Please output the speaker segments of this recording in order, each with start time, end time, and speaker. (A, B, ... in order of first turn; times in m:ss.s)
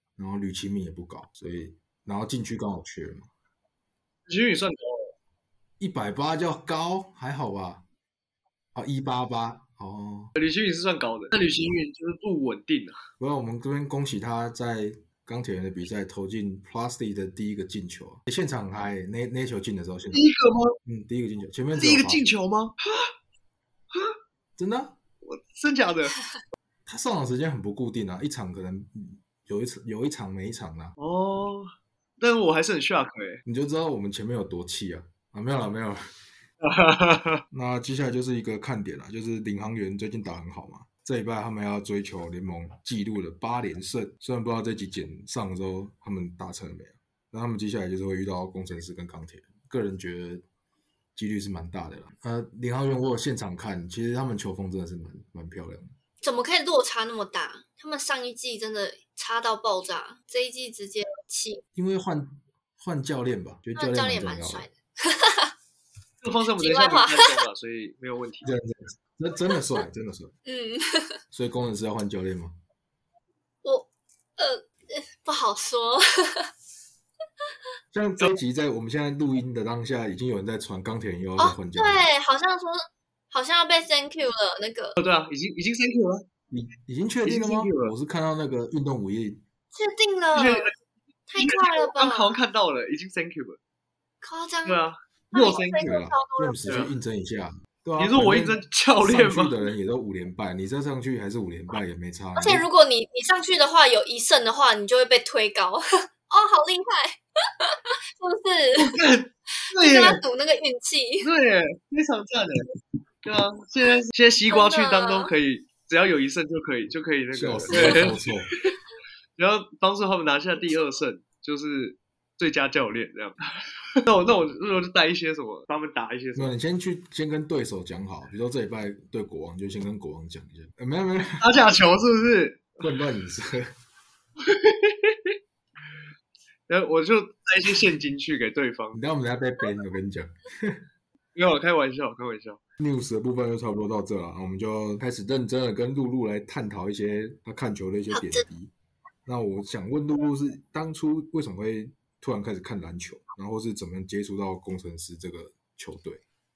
0:00.2-0:03.3 A
0:04.3-0:05.1 B
0:05.8-0:07.8 A
0:08.7-0:10.3 A
0:10.3-0:13.0 B
0:13.2-0:20.2 A
0:20.1-0:20.8 B
0:20.8-0:22.2 A
0:21.8-0:23.1 B
0:24.6-0:25.0 A
0:25.2-0:26.2 B
0:26.8-0:30.9 A
0:31.0-0:33.4 B
0:33.4-0:36.0 A
0:36.6-0:37.4 B
0:37.5-0:50.4 A
0:51.2-0:55.9 A
0:56.2-1:01.6 C
1:01.7-1:04.7 A
1:03.8-1:05.5 C
1:06.2-1:08.5 B
1:06.6-1:07.3 C
1:08.4-1:10.3 A
1:10.4-1:11.1 C
1:11.3-1:12.5 A
1:13.6-1:16.5 C
1:17.9-1:22.0 A
1:21.4-1:25.0 C
1:25.0-1:26.2 B
1:26.5-1:29.4 A
1:27.2-1:27.9 B
1:29.7-1:30.7 C
1:30.3-1:30.7 B
1:31.3-1:32.4 C
1:31.4-1:33.6 B
1:34.2-1:36.9 C
1:34.6-1:35.9 B
1:35.8-1:42.6 A
1:38.0-1:39.7 B
1:42.4-1:49.0 C
1:48.8-1:50.2 B
1:49.6-1:51.3 C
1:51.2-1:52.7 B
1:53.2-1:58.8 B
1:54.5-1:55.3 C
1:57.3-1:58.5 A
1:59.4-2:03.4 B
2:04.0-2:06.5 B
2:06.4-2:11.5 A
2:11.4-2:12.8 B
2:12.8-2:13.7 A
2:14.4-2:15.3 B
2:16.7-2:19.0 B
2:18.9-2:20.8 A
2:21.3-2:22.6 B
2:22.8-2:28.7 A
2:28.1-2:28.4 C
2:29.2-2:36.2 A